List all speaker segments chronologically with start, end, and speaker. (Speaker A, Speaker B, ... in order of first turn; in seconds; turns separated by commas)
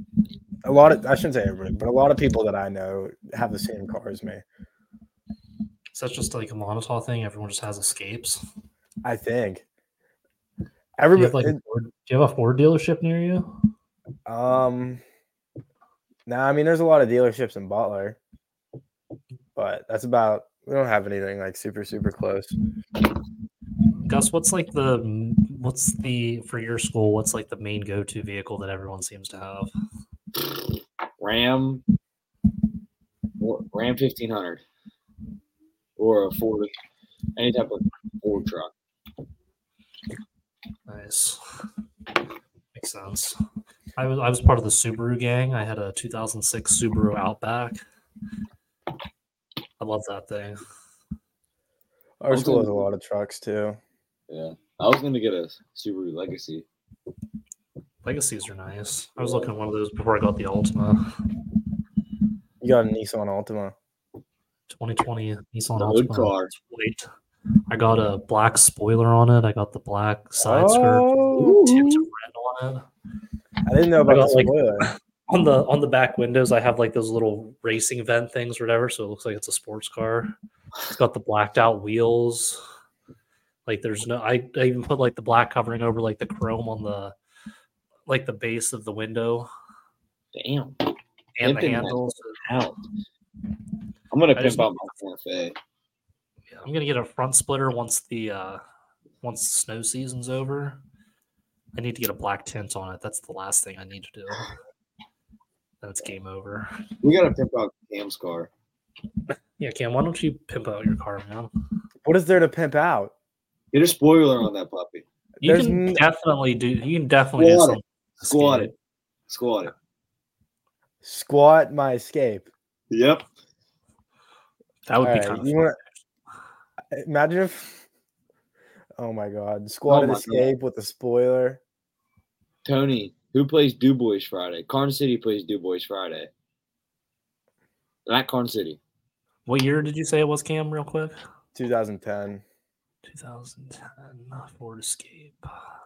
Speaker A: 0.6-4.4, Speaker B: 5.9-8.4, Speaker A: 9.0-9.7, Speaker A: 11.0-11.6, Speaker B: 11.2-13.5, Speaker A: 14.3-15.0, Speaker A: 16.3-18.2, Speaker A: 19.6-22.5, Speaker B: 24.1-29.7, Speaker C: 31.2-31.8, Speaker C: 33.4-34.6, Speaker C: 36.0-36.7, Speaker C: 37.4-38.7, Speaker B: 40.9-41.4, Speaker B: 42.8-43.4, Speaker B: 44.0-47.8, Speaker B: 49.8-50.6, Speaker A: 52.2-53.8, Speaker C: 52.3-52.8, Speaker C: 54.3-56.7, Speaker B: 58.0-61.0, Speaker C: 59.2-59.5, Speaker A: 62.6-63.7, Speaker B: 64.7-67.1, Speaker C: 65.8-66.5, Speaker B: 67.7-72.9, Speaker A: 70.4-72.0, Speaker A: 73.7-74.9, Speaker B: 74.0-80.3, Speaker B: 80.9-82.6, Speaker B: 83.7-87.2, Speaker B: 88.1-89.5, Speaker C: 90.3-90.9, Speaker B: 91.4-92.4, Speaker C: 91.4-92.8, Speaker C: 94.1-95.6, Speaker B: 94.3-94.7, Speaker B: 96.5-98.6, Speaker B: 99.2-100.8, Speaker B: 101.8-104.5, Speaker B: 105.8-106.7, Speaker C: 107.0-108.5, Speaker B: 109.6-111.5, Speaker A: 112.0-113.1, Speaker C: 113.7-115.0, Speaker B: 115.4-118.7, Speaker A: 115.4-116.0, Speaker C: 117.4-118.7, Speaker C: 119.3-119.7, Speaker A: 121.0-122.5, Speaker C: 122.9-123.2, Speaker B: 124.9-125.7, Speaker A: 125.0-125.8, Speaker A: 126.9-127.8, Speaker A: 129.0-131.6, Speaker C: 129.9-130.5, Speaker C: 132.7-136.3, Speaker C: 138.1-138.8, Speaker B: 139.5-141.2, Speaker A: 141.6-142.4, Speaker B: 143.1-145.5